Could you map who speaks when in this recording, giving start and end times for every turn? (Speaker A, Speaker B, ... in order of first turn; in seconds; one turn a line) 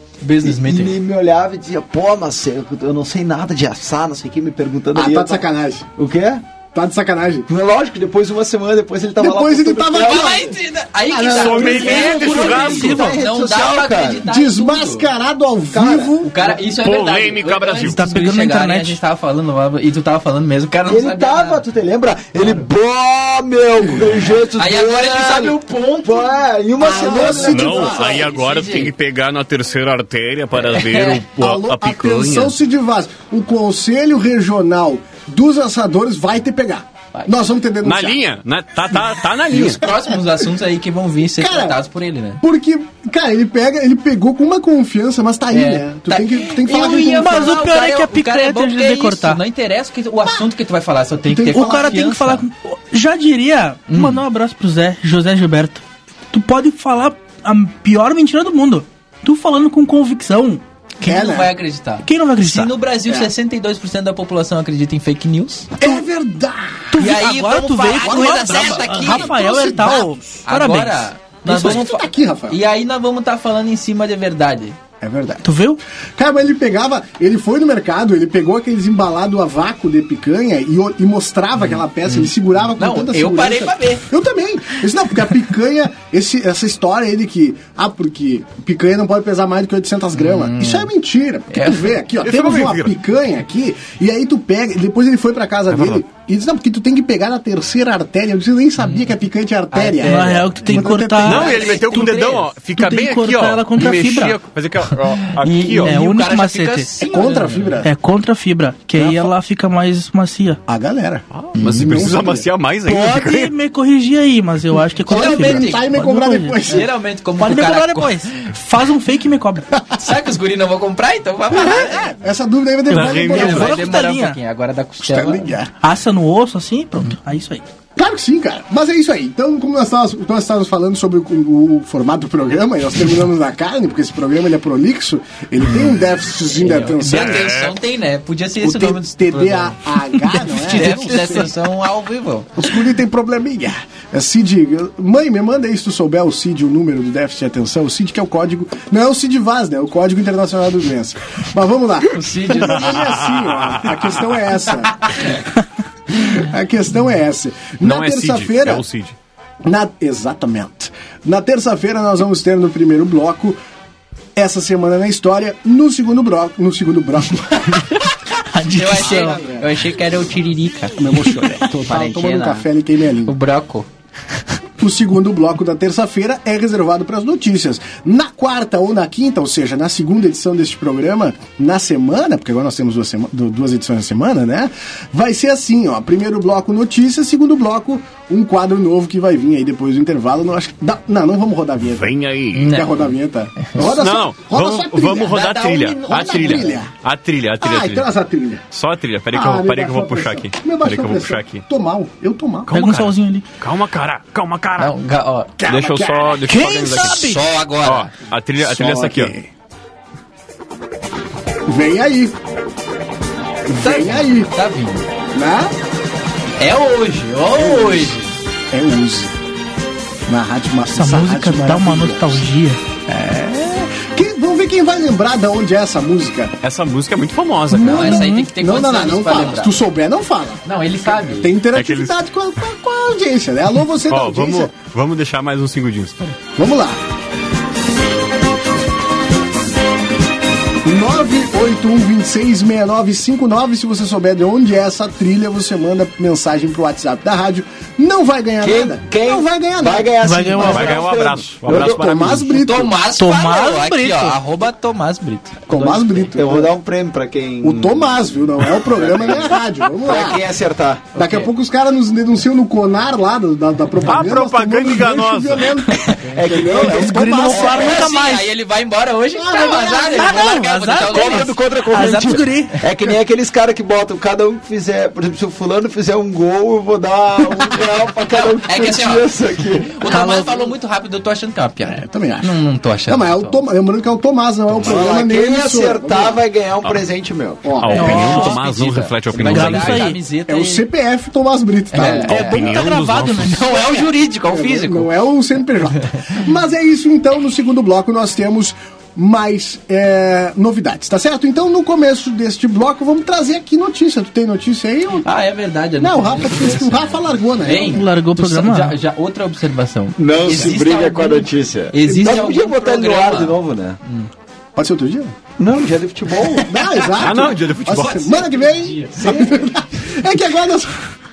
Speaker A: 0.2-1.0
Speaker B: 0.4-5.5
Speaker C: 4.9-5.9
Speaker B: 6.0-6.4
Speaker C: 6.7-7.5
Speaker B: 7.5-10.5
Speaker C: 9.2-10.6
Speaker A: 9.9-15.1
Speaker C: 11.1-12.3
Speaker D: 11.3-13.1
Speaker B: 11.6-14.3
Speaker E: 11.8-13.2
Speaker C: 14.3-16.3
Speaker B: 15.7-16.5
Speaker A: 16.2-21.6
Speaker D: 16.8-18.0
Speaker E: 17.8-19.0
Speaker B: 20.9-27.9
Speaker A: 24.2-28.9
Speaker C: 26.8-28.3
Speaker D: 27.5-32.5
Speaker A: 30.6-31.2
Speaker C: 31.4-38.2
Speaker D: 37.8-39.8
Speaker A: 39.5-42.4
Speaker C: 39.5-40.4
Speaker C: 41.4-41.8
Speaker C: 42.4-47.5
Speaker A: 45.5-52.5
Speaker E: 47.1-49.4
Speaker C: 51.2-52.0
Speaker E: 51.5-60.6
Speaker A: 53.9-54.2
Speaker A: 61.0-65.8
Speaker C: 61.0-61.5
Speaker E: 62.0-62.8
Speaker C: 63.1-63.3
Speaker C: 65.8-67.0
Speaker E: 66.9-71.8
Speaker A: 67.0-74.8
Speaker C: 68.0-70.2
Speaker C: 71.5-72.6
Speaker C: 75.0-75.5
Speaker E: 75.4-75.8
Speaker C: 76.2-101.7
Speaker A: 82.0-84.1
Speaker A: 90.2-90.9
Speaker A: 91.5-92.0
Speaker D: 92.2-93.0
Speaker D: 95.7-96.0
Speaker A: 98.8-99.1
Speaker A: 99.7-102.5
Speaker E: 100.0-101.7
Speaker D: 101.2-106.0
Speaker E: 102.8-104.4
Speaker A: 105.2-107.8
Speaker E: 105.8-106.9
Speaker C: 107.0-107.9
Speaker E: 107.8-110.6
Speaker C: 109.0-109.3
Speaker C: 110.7-112.5
Speaker D: 111.3-113.5
Speaker A: 111.6-111.9
Speaker E: 112.8-119.7
Speaker C: 115.0-116.9
Speaker A: 115.1-115.9
Speaker A: 116.7-118.5
Speaker A: 119.9-122.1
Speaker C: 121.5-123.8
Speaker E: 122.9-124.4
Speaker D: 122.9-123.8
Speaker A: 123.3-125.5
Speaker C: 125.0-125.7
Speaker E: 125.8-127.6
Speaker C: 128.0-137.5
Speaker A: 136.5-139.8
Speaker D: 137.0-137.8
Speaker C: 138.6-141.5
Speaker E: 140.2-141.5
Speaker A: 140.7-142.6
Speaker C: 142.6-155.4
Speaker A: 152.1-153.0
Speaker D: 152.9-154.2
Speaker C: 156.1-158.8
Speaker D: 157.8-159.2
Speaker C: 159.6-163.6
Speaker C: 164.3-168.0
Speaker E: 168.5-169.4
Speaker A: 168.7-171.0
Speaker C: 169.0-169.7
Speaker C: 171.0-173.4
Speaker A: 171.7-172.7
Speaker A: 173.2-173.9
Speaker C: 174.8-192.1
Speaker D: 191.9-192.7
Speaker A: 192.5-193.1
Speaker C: 192.7-196.9
Speaker D: 193.8-198.1
Speaker A: 195.9-196.6
Speaker C: 197.6-198.6
Speaker D: 198.7-201.6
Speaker C: 199.3-202.8
Speaker E: 202.7-203.4
Speaker D: 202.7-204.9
Speaker A: 204.8-205.6
Speaker C: 205.6-206.6
Speaker D: 205.7-207.2
Speaker E: 206.5-207.4
Speaker A: 206.9-208.1
Speaker D: 207.8-209.3
Speaker C: 208.6-209.5
Speaker C: 211.7-212.4
Speaker C: 213.7-214.5
Speaker A: 213.8-215.1
Speaker C: 215.3-215.7
Speaker A: 216.6-218.2
Speaker C: 217.6-218.2
Speaker C: 218.7-219.3
Speaker C: 220.3-222.5
Speaker E: 220.9-222.8
Speaker C: 223.1-226.5
Speaker D: 226.6-228.2
Speaker C: 227.7-234.7
Speaker A: 227.9-229.8
Speaker E: 228.1-228.5
Speaker A: 230.7-231.6
Speaker D: 231.7-232.2
Speaker D: 234.1-236.4
Speaker C: 236.6-237.0
Speaker C: 240.8-250.1
Speaker B: 248.6-252.4
Speaker E: 250.2-251.0
Speaker D: 250.6-252.5
Speaker C: 251.6-253.0
Speaker A: 252.5-256.4
Speaker E: 253.1-254.4
Speaker C: 255.7-256.7
Speaker B: 256.4-258.3
Speaker C: 257.6-260.5
Speaker B: 258.9-261.1
Speaker C: 261.1-267.9
Speaker A: 261.2-261.5
Speaker D: 264.1-265.8
Speaker A: 266.1-266.4
Speaker B: 266.3-268.0
Speaker E: 266.8-268.5
Speaker A: 267.5-271.5
Speaker C: 269.4-270.3
Speaker E: 269.6-272.8
Speaker B: 271.0-280.2
Speaker A: 278.3-283.6
Speaker E: 280.1-280.7
Speaker C: 281.9-286.4
Speaker B: 284.8-287.7
Speaker C: 287.6-288.3
Speaker D: 287.8-290.1
Speaker E: 287.9-288.6
Speaker A: 288.0-290.9
Speaker E: 289.4-290.2
Speaker C: 290.5-292.8
Speaker A: 291.9-292.8
Speaker E: 292.3-293.8
Speaker D: 292.3-293.7
Speaker A: 293.4-295.1
Speaker C: 294.5-305.3
Speaker A: 305.2-314.3
Speaker C: 306.0-308.1
Speaker E: 307.9-309.0
Speaker B: 310.2-314.0
Speaker C: 310.5-310.8
Speaker C: 314.8-315.4
Speaker B: 315.6-316.8
Speaker C: 316.7-321.1
Speaker D: 317.2-318.4
Speaker A: 318.3-319.6
Speaker B: 319.2-319.6